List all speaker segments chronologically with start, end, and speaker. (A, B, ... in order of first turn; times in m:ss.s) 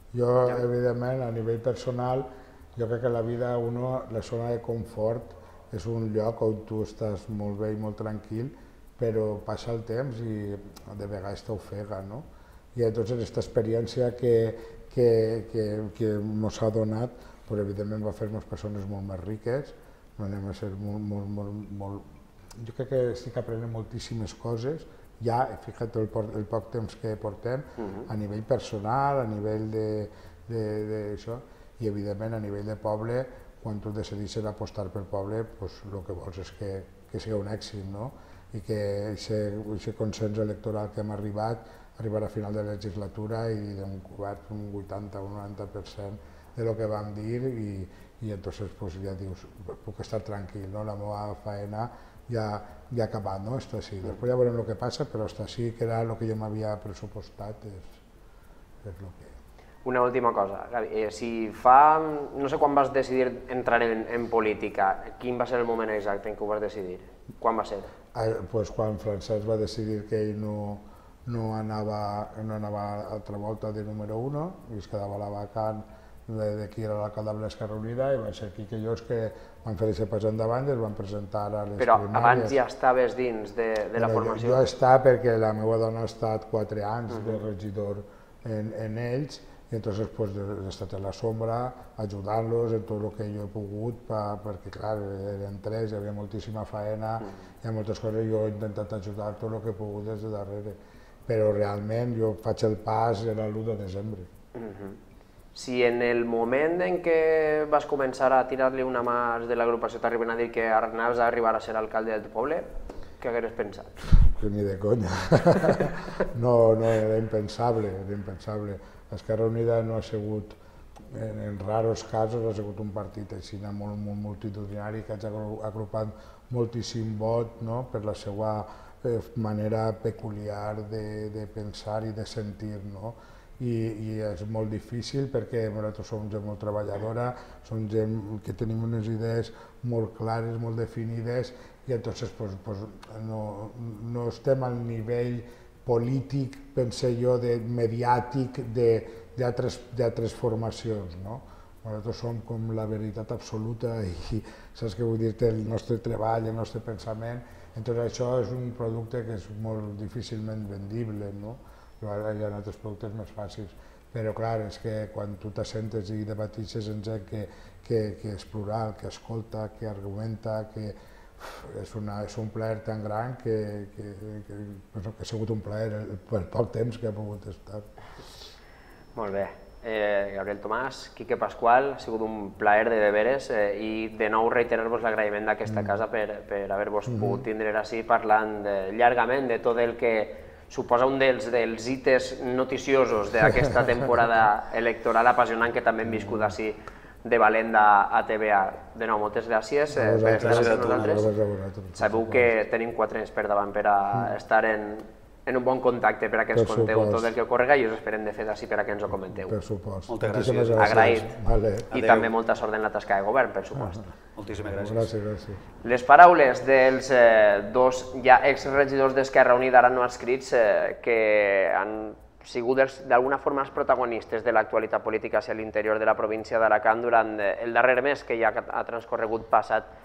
0:00.1-0:58.0 A
0:58.8-0:59.4 A
0:59.8-1:07.9 B
1:08.1-1:22.6 A
1:21.8-1:24.6 B
1:24.0-1:44.3 A
1:27.1-1:27.4 B
1:44.5-1:45.0 B
1:45.5-1:54.0 B
1:54.0-2:57.9 A
2:59.1-3:21.3 B
3:05.7-3:06.0 A
3:07.1-3:07.4 A
3:16.2-3:16.5 A
3:19.9-3:22.5 A
3:20.3-3:21.2 C
3:22.0-3:29.5 B
3:26.5-3:27.3 A
3:29.4-3:31.9 A
3:30.1-3:31.2 C
3:30.8-3:31.3 B
3:31.9-3:32.3 C
3:31.9-3:34.1 B
3:34.3-3:35.1 C
3:34.7-3:35.6 A
3:35.8-3:49.9 B